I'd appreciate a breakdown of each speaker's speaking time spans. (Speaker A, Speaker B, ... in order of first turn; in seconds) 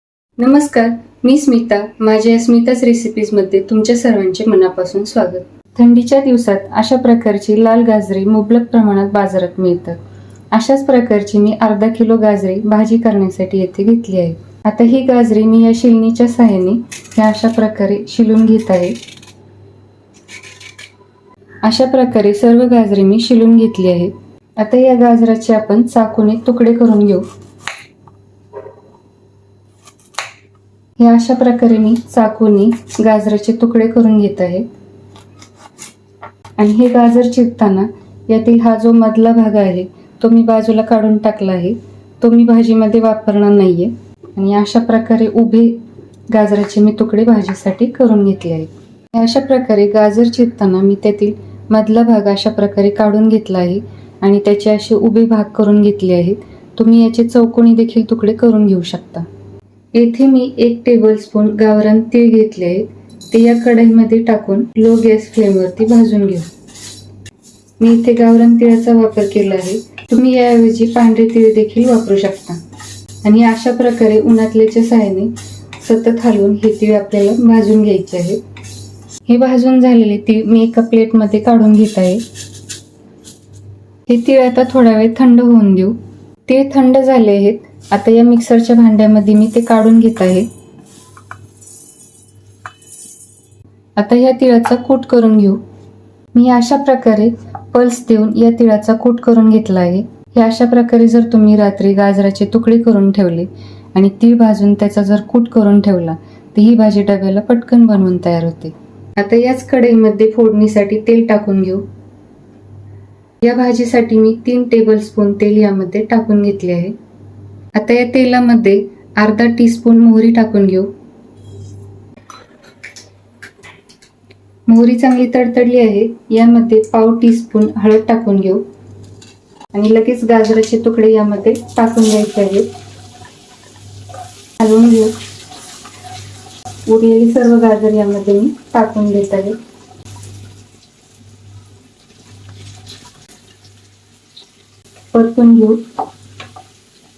Speaker A: 0.4-10.0, 10.5-19.0, 21.6-27.2, 31.0-34.7, 36.6-45.8, 46.3-59.3, 59.9-66.5, 67.8-72.6, 73.2-78.4, 79.3-82.2, 84.1-86.0, 86.5-90.5, 94.0-95.6, 96.3-111.8, 113.4-117.0, 117.8-120.9, 124.7-128.6, 129.7-132.7, 134.6-135.1, 136.9-139.6, 145.1-145.8